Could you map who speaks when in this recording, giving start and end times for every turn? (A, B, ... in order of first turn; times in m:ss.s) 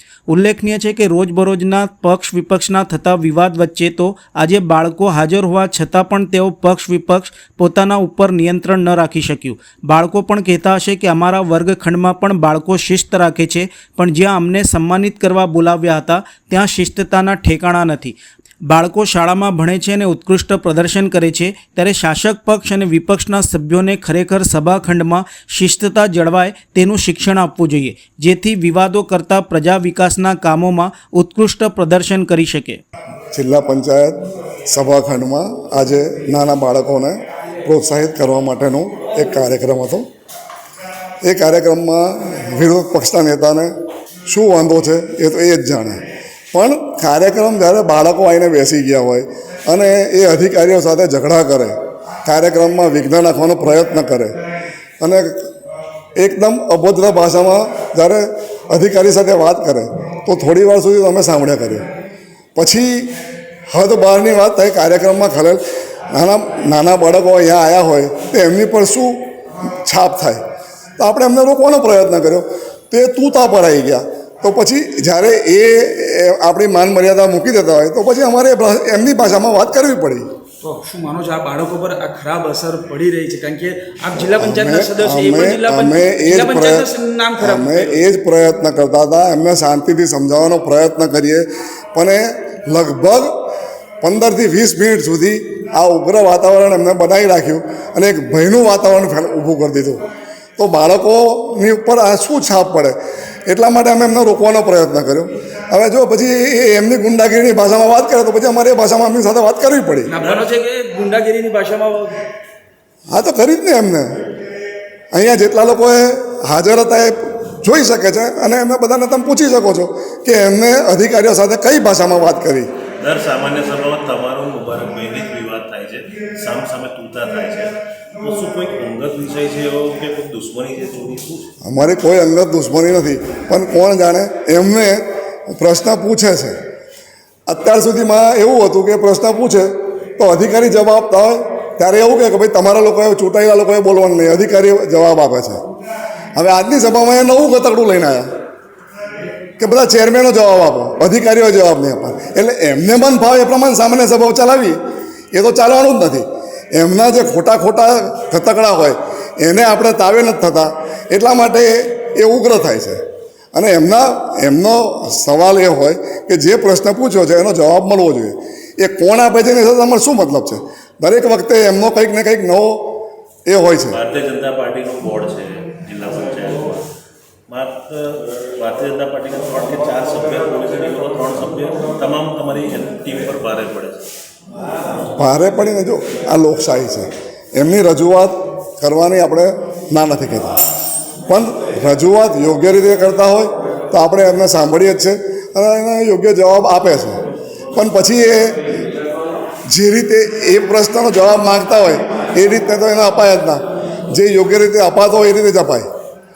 0:00.3-0:32.8 A
0:33.3-0:40.0 B
0:41.2-0:43.7 B
0:44.3-0:46.0 B
0:46.5-0:54.4 B
0:55.0-0:55.5 B
0:56.2-1:01.8 B
1:02.6-1:03.1 B
1:03.7-1:05.6 B
1:06.1-1:09.2 B
1:09.8-1:10.4 B
1:11.0-1:20.2 B
1:20.6-1:28.0 C
1:24.4-1:26.9 B
1:27.4-1:33.3 B
1:34.0-1:40.0 B
1:40.6-1:50.1 B
1:50.1-1:52.2 C
1:50.2-1:50.4 D
1:53.1-1:54.2 B
1:55.1-2:02.7 B
2:03.0-2:11.4 D
2:11.6-2:16.6 B
2:17.5-2:25.6 B
2:26.4-2:28.3 B
2:29.6-2:34.8 B
2:35.3-2:43.0 B
2:43.5-2:52.9 B
2:53.5-2:54.0 B
2:53.9-2:56.7 D
2:57.5-3:04.0 D
3:05.2-3:10.6 B
3:11.3-3:17.2 B
3:17.7-3:18.6 B
3:19.7-3:25.8 B